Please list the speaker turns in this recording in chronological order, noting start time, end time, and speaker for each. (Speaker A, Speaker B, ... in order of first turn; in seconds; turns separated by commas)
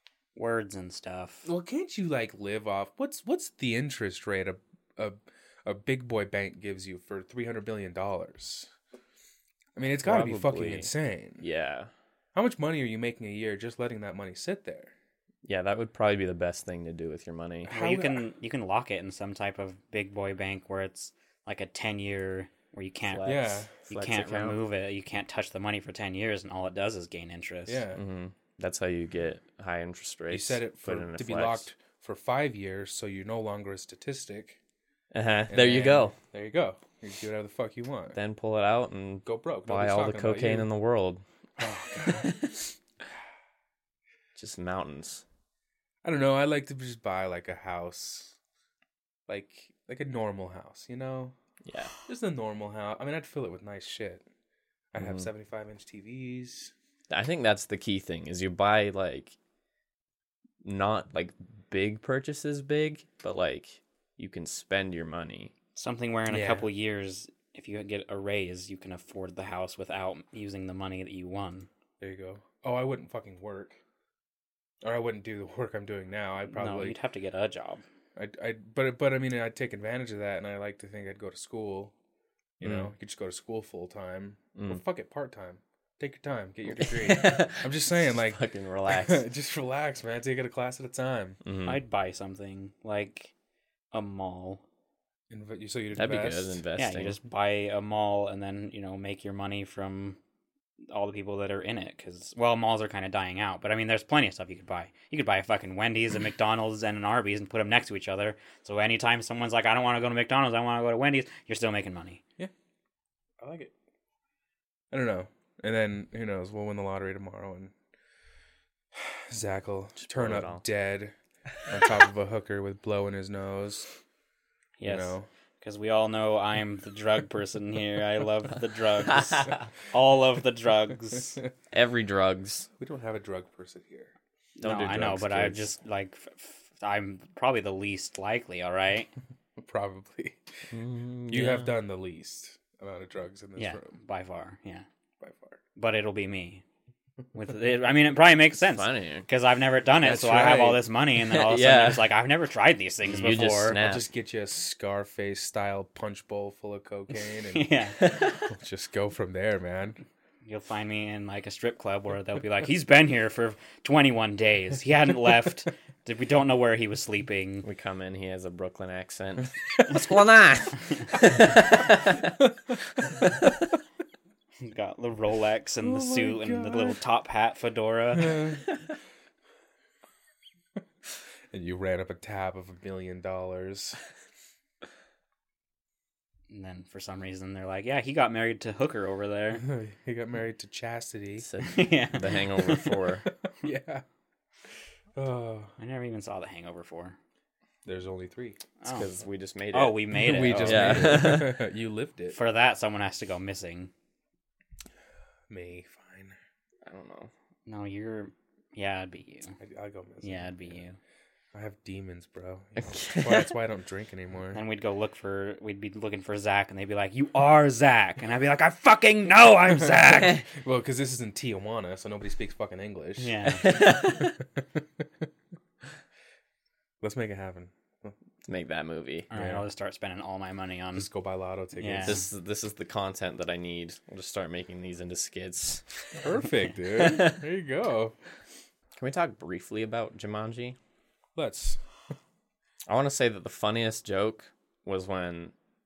Speaker A: 0.3-1.4, Speaker B: 1.4-8.7, Speaker B: 9.8-11.4, Speaker C: 10.0-11.9, Speaker B: 12.3-14.9, Speaker C: 15.4-17.7, Speaker B: 17.6-18.2, Speaker A: 17.7-27.8, Speaker C: 23.0-24.6, Speaker B: 23.2-23.7, Speaker B: 27.7-28.0, Speaker C: 27.9-31.7, Speaker B: 30.3-34.6, Speaker C: 35.1-36.1, Speaker B: 35.5-38.2, Speaker C: 38.1-41.2, Speaker B: 39.2-40.7, Speaker B: 41.6-42.3, Speaker C: 41.9-42.7, Speaker C: 44.3-45.2, Speaker B: 46.0-48.4, Speaker B: 49.3-51.3, Speaker C: 51.6-51.9, Speaker B: 52.0-54.2, Speaker B: 54.9-56.7, Speaker C: 55.0-55.3, Speaker C: 57.1-59.4, Speaker C: 60.6-65.5, Speaker A: 65.8-71.7, Speaker B: 66.3-66.7, Speaker B: 72.0-73.8, Speaker B: 74.8-77.0, Speaker A: 76.5-77.8, Speaker B: 78.2-81.9, Speaker B: 82.6-91.4, Speaker C: 82.6-82.9, Speaker C: 84.5-84.8, Speaker C: 86.8-89.2, Speaker C: 91.4-91.8, Speaker A: 91.6-93.3, Speaker A: 93.9-94.6, Speaker B: 95.3-96.6, Speaker C: 95.9-97.2, Speaker A: 96.8-100.2, Speaker A: 100.9-112.2, Speaker B: 113.4-113.7, Speaker B: 114.9-117.7, Speaker B: 119.0-121.1, Speaker C: 120.0-120.6, Speaker B: 121.7-123.9, Speaker A: 124.8-131.4, Speaker B: 124.8-125.3, Speaker C: 129.1-129.7, Speaker C: 131.7-132.7, Speaker B: 132.8-134.1, Speaker A: 134.6-139.1, Speaker C: 134.6-135.6, Speaker B: 139.6-140.4, Speaker C: 140.7-141.7, Speaker B: 141.3-143.9, Speaker A: 143.6-144.8, Speaker B: 145.2-145.6, Speaker A: 145.8-146.6, Speaker A: 147.3-153.8, Speaker C: 148.6-149.2, Speaker B: 150.0-150.8, Speaker C: 151.2-152.1, Speaker C: 153.1-154.1, Speaker B: 153.7-160.0, Speaker A: 157.5-158.0, Speaker C: 158.0-158.5, Speaker A: 160.4-167.7, Speaker C: 167.6-172.4, Speaker C: 172.9-173.6, Speaker A: 174.7-178.5, Speaker B: 175.8-177.0, Speaker B: 178.2-178.7, Speaker B: 181.5-184.0, Speaker A: 186.5-189.6, Speaker B: 189.6-191.5, Speaker C: 191.4-193.2, Speaker A: 191.7-192.9, Speaker B: 193.5-194.0, Speaker B: 195.2-195.7, Speaker A: 195.8-197.2, Speaker B: 197.8-198.6, Speaker A: 198.8-199.1, Speaker C: 198.8-201.6, Speaker A: 199.7-201.4, Speaker B: 200.1-202.4, Speaker A: 202.3-203.9, Speaker B: 205.5-206.3, Speaker C: 206.8-207.3, Speaker A: 207.7-209.6, Speaker B: 209.6-210.8, Speaker A: 210.2-211.0, Speaker B: 211.5-214.6, Speaker C: 212.8-213.5, Speaker A: 214.5-220.4, Speaker B: 220.1-224.3, Speaker A: 223.2-223.8, Speaker C: 223.6-224.3, Speaker B: 227.0-228.1, Speaker C: 228.4-229.3, Speaker A: 229.3-231.1, Speaker B: 229.3-229.6, Speaker B: 230.9-232.2, Speaker A: 231.8-232.2, Speaker C: 232.0-236.3, Speaker B: 236.2-238.1, Speaker C: 236.9-237.4, Speaker C: 238.9-240.8, Speaker B: 241.3-241.8, Speaker C: 242.9-245.5